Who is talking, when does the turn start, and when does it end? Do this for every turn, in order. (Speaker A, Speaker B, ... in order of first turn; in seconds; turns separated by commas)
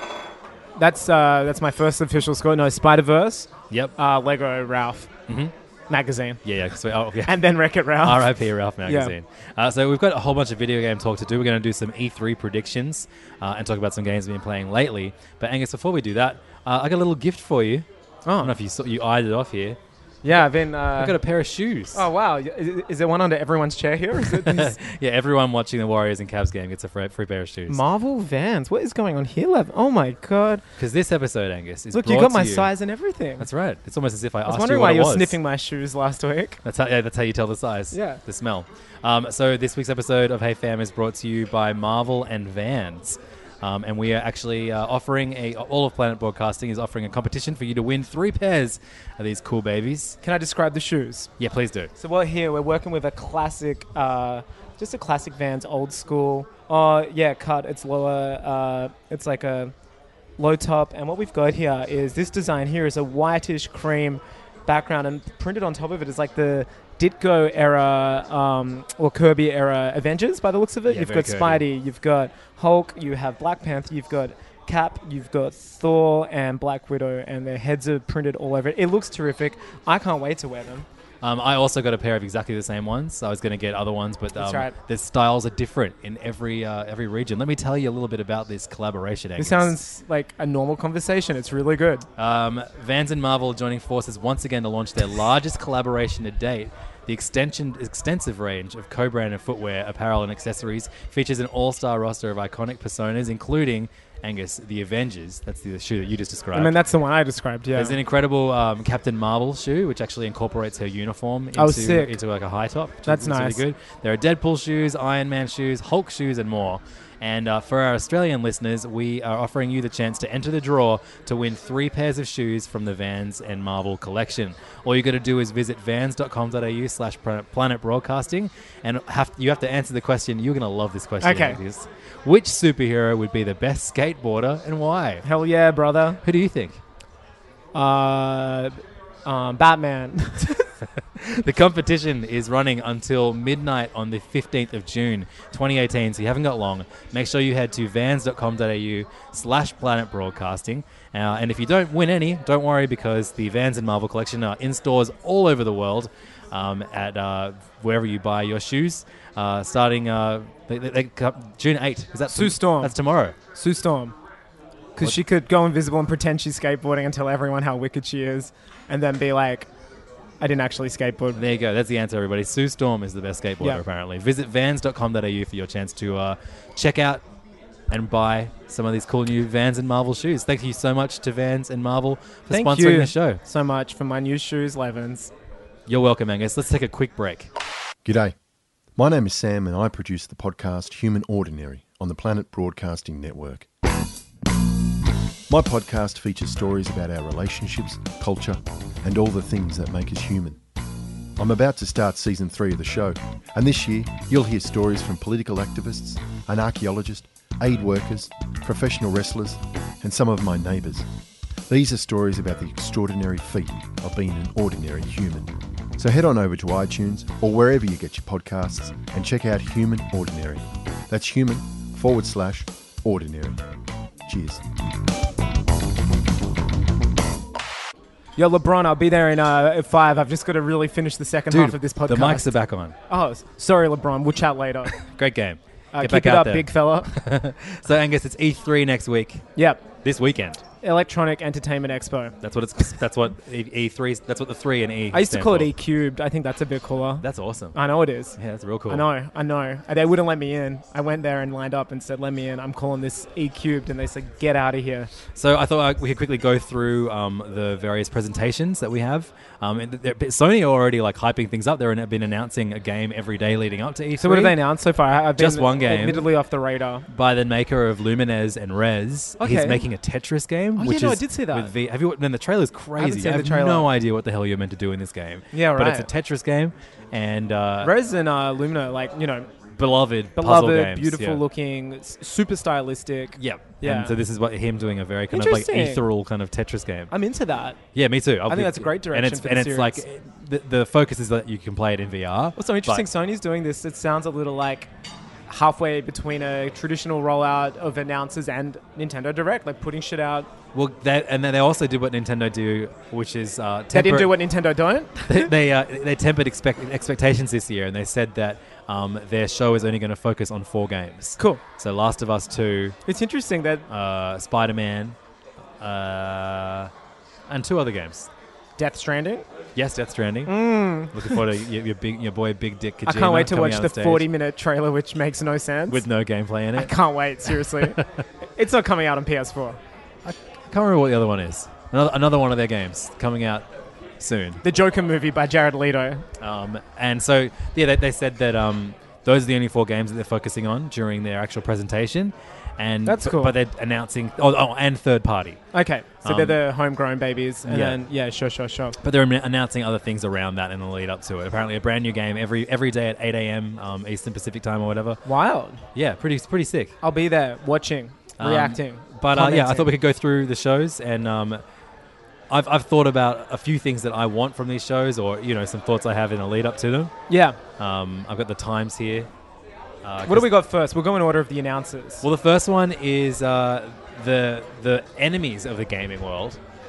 Speaker A: 0.8-5.1, Speaker B: 5.3-5.5, Speaker A: 5.9-6.4, Speaker B: 6.5-7.4, Speaker A: 7.2-8.3, Speaker B: 8.0-17.9, Speaker A: 8.8-9.1, Speaker A: 18.3-18.5, Speaker B: 18.4-19.8, Speaker A: 20.2-21.2, Speaker B: 21.0-22.1, Speaker A: 21.9-24.8, Speaker B: 24.2-27.8, Speaker A: 27.7-30.6, Speaker B: 30.8-32.7, Speaker A: 31.9-33.5, Speaker B: 33.4-35.4, Speaker A: 34.5-36.6, Speaker B: 36.6-50.2, Speaker A: 37.9-38.2, Speaker A: 50.2-51.3, Speaker B: 51.4-51.9, Speaker A: 52.0-59.7, Speaker A: 60.4-80.9, Speaker B: 70.9-71.6, Speaker B: 81.2-89.8, Speaker A: 84.4-84.8, Speaker A: 89.4-92.1, Speaker B: 92.2-106.8, Speaker A: 106.5-108.0, Speaker B: 107.8-135.2, Speaker A: 111.6-112.2, Speaker A: 113.1-113.6, Speaker A: 131.2-131.6, Speaker A: 135.2-136.2, Speaker B: 136.2-136.8, Speaker A: 137.7-140.7, Speaker B: 141.2-163.4, Speaker A: 162.3-162.9, Speaker A: 163.6-164.2, Speaker A: 165.0-169.7, Speaker A: 170.4-171.4, Speaker B: 171.3-177.2, Speaker B: 177.9-183.4, Speaker A: 182.5-185.3, Speaker B: 185.9-187.5, Speaker C: 188.1-188.3, Speaker C: 189.0-193.7, Speaker C: 195.5-200.6, Speaker C: 201.4-211.1, Speaker C: 211.7-223.6, Speaker C: 224.2-224.6, Speaker A: 228.4-232.5, Speaker B: 231.5-233.0, Speaker A: 233.1-235.0, Speaker B: 235.0-239.5, Speaker A: 235.9-237.1, Speaker A: 239.6-239.8, Speaker B: 240.0-240.6, Speaker A: 240.8-242.3, Speaker B: 242.4-245.7, Speaker A: 245.1-248.4, Speaker B: 247.2-247.8, Speaker B: 248.4-249.1, Speaker A: 248.9-255.1, Speaker B: 255.3-264.6, Speaker A: 264.2-267.1, Speaker B: 265.4-266.3, Speaker B: 267.1-277.9, Speaker A: 269.4-269.8, Speaker A: 270.8-271.7, Speaker A: 273.0-273.9, Speaker A: 275.5-276.1, Speaker A: 277.8-279.5, Speaker B: 279.8-281.4, Speaker A: 280.4-284.1, Speaker B: 283.4-287.1, Speaker A: 285.3-286.0, Speaker A: 287.1-287.8, Speaker B: 287.9-293.1, Speaker A: 288.5-290.0, Speaker A: 292.6-294.9, Speaker A: 295.5-300.5, Speaker B: 300.7-304.4, Speaker A: 303.9-305.5, Speaker B: 305.3-313.0, Speaker A: 313.1-313.9, Speaker B: 313.9-315.2, Speaker B: 315.8-316.9, Speaker B: 317.5-318.3, Speaker A: 318.8-319.5, Speaker B: 319.8-324.3, Speaker A: 320.5-321.4, Speaker A: 323.1-326.0, Speaker B: 325.9-326.9, Speaker A: 326.8-328.0, Speaker B: 327.5-328.1, Speaker A: 328.6-329.8, Speaker B: 330.2-333.7, Speaker B: 334.2-334.6, Speaker A: 334.6-336.2, Speaker B: 336.4-345.6, Speaker A: 343.1-343.6, Speaker A: 345.7-349.0, Speaker B: 346.2-346.6, Speaker B: 347.7-348.0, Speaker B: 349.0-355.2, Speaker A: 355.3-355.8, Speaker B: 355.9-356.9, Speaker A: 357.0-359.9, Speaker B: 358.4-361.6, Speaker B: 362.5-367.1, Speaker A: 367.3-367.6, Speaker B: 367.8-369.3, Speaker B: 370.0-370.5, Speaker A: 370.3-372.2, Speaker B: 372.2-376.6